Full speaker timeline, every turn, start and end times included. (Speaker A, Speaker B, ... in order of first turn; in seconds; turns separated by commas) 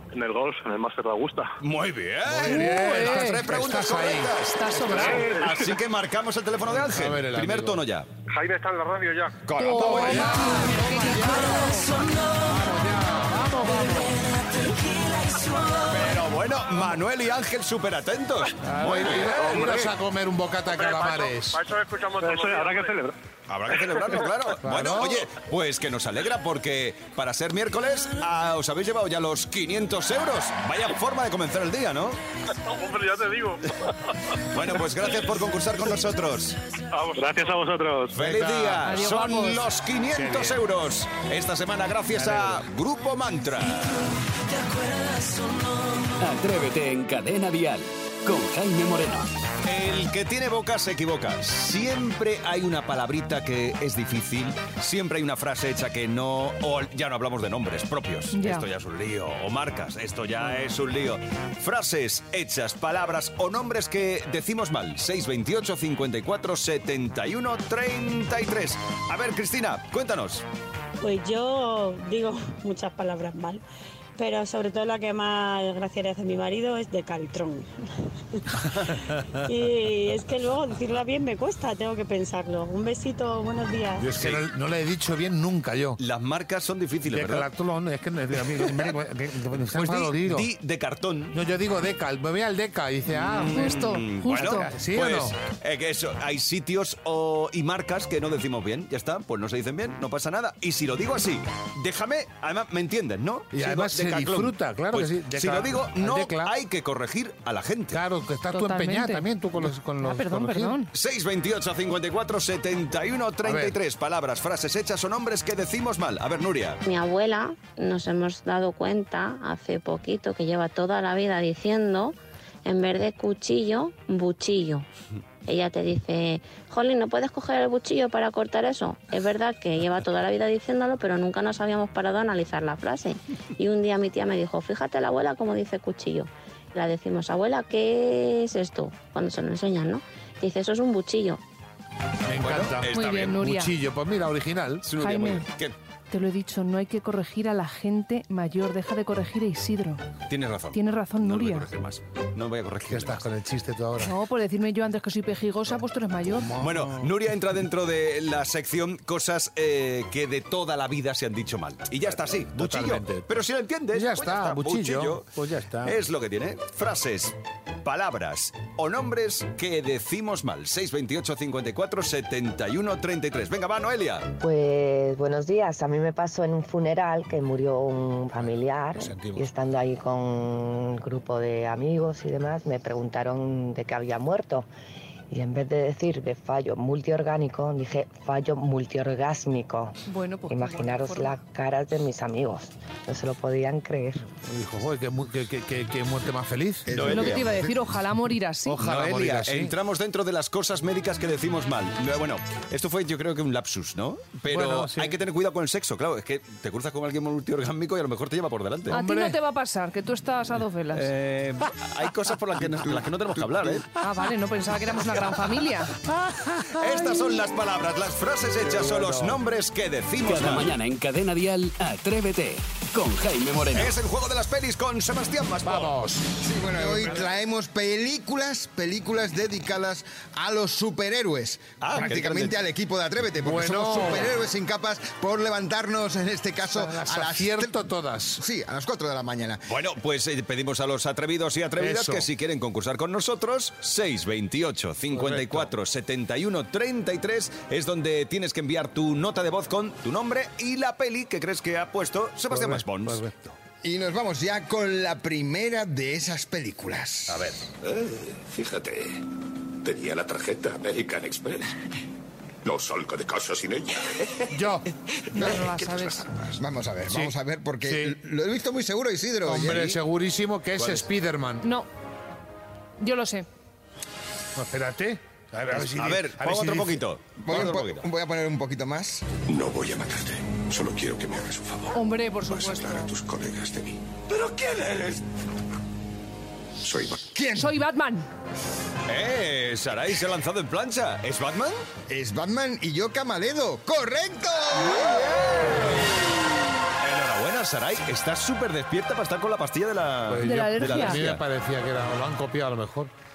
Speaker A: 0.1-1.6, Speaker B: 1.6-8.1, Speaker C: 2.2-5.3, Speaker D: 2.5-3.4, Speaker D: 4.5-5.2, Speaker A: 5.0-5.8, Speaker C: 6.7-7.8, Speaker A: 8.3-9.4, Speaker B: 9.4-10.7, Speaker D: 9.6-11.9, Speaker C: 9.6-14.2, Speaker B: 15.8-19.9, Speaker C: 18.6-21.6, Speaker A: 20.7-23.1, Speaker B: 23.5-32.2, Speaker C: 24.6-25.3, Speaker A: 32.6-33.6, Speaker B: 34.5-36.6, Speaker A: 36.9-38.2, Speaker B: 38.1-44.1, Speaker C: 38.1-39.1, Speaker D: 38.8-39.7, Speaker C: 40.1-40.7, Speaker C: 42.1-42.7, Speaker E: 46.2-49.3, Speaker B: 49.6-70.4, Speaker D: 58.3-58.7, Speaker F: 71.0-73.6, Speaker F: 74.2-77.7, Speaker F: 79.5-84.0, Speaker C: 84.0-86.0, Speaker B: 84.2-84.4, Speaker B: 86.0-87.5, Speaker C: 87.1-90.5, Speaker B: 89.7-91.4, Speaker C: 91.3-93.7, Speaker B: 93.1-108.0, Speaker D: 93.5-94.7, Speaker C: 94.3-95.3, Speaker C: 103.5-106.5, Speaker C: 107.9-110.8, Speaker D: 108.5-109.3, Speaker D: 110.0-110.9, Speaker B: 110.9-116.8, Speaker C: 113.4-113.8, Speaker G: 116.8-124.9, Speaker G: 125.5-141.4, Speaker C: 142.3-144.9, Speaker B: 142.4-143.4, Speaker D: 142.9-143.7, Speaker B: 144.8-145.7, Speaker D: 145.0-145.5, Speaker D: 146.1-150.0, Speaker B: 150.3-153.2, Speaker D: 150.7-151.7, Speaker C: 152.9-154.2, Speaker D: 154.0-156.6, Speaker C: 156.3-157.2, Speaker B: 156.6-165.3, Speaker C: 162.5-163.3, Speaker C: 163.9-166.0, Speaker B: 165.8-174.3, Speaker H: 174.4-184.7, Speaker C: 178.4-179.4, Speaker H: 185.3-190.0, Speaker D: 190.1-191.3, Speaker H: 190.5-194.3, Speaker C: 194.4-197.4, Speaker I: 196.9-197.8, Speaker B: 196.9-197.4, Speaker D: 197.1-198.8, Speaker C: 198.7-199.7, Speaker B: 198.8-209.0, Speaker C: 204.5-205.2, Speaker C: 208.9-209.4, Speaker D: 208.9-211.1, Speaker B: 210.9-213.9, Speaker I: 212.8-213.8, Speaker D: 214.0-215.9, Speaker B: 215.1-215.5, Speaker C: 216.2-217.2, Speaker B: 216.7-220.7, Speaker C: 218.6-219.4, Speaker E: 220.2-223.9, Speaker B: 223.7-225.9, Speaker C: 225.7-227.2, Speaker I: 226.4-237.7, Speaker B: 231.8-232.6, Speaker C: 233.4-234.3, Speaker C: 236.7-238.4, Speaker I: 238.4-239.7, Speaker B: 239.7-253.2, Speaker C: 241.8-242.3, Speaker C: 245.1-245.7, Speaker C: 252.5-253.6, Speaker I: 253.8-257.5, Speaker B: 257.3-257.6, Speaker J: 257.9-259.2, Speaker J: 259.8-261.8, Speaker J: 262.6-264.3, Speaker C: 264.5-264.9, Speaker D: 265.3-266.3, Speaker J: 265.6-266.4, Speaker I: 266.5-270.0, Speaker C: 267.1-267.3, Speaker C: 267.9-268.2, Speaker C: 269.5-271.7, Speaker D: 271.6-271.9, Speaker D: 273.0-273.5, Speaker C: 274.6-277.1, Speaker B: 275.7-278.1, Speaker I: 277.4-279.2, Speaker J: 279.5-285.1, Speaker D: 281.9-283.1, Speaker J: 286.8-287.3, Speaker I: 287.3-287.8, Speaker D: 287.6-288.3, Speaker B: 289.1-291.8, Speaker I: 292.1-296.0, Speaker B: 297.0-301.4, Speaker C: 300.3-303.1, Speaker D: 300.4-301.2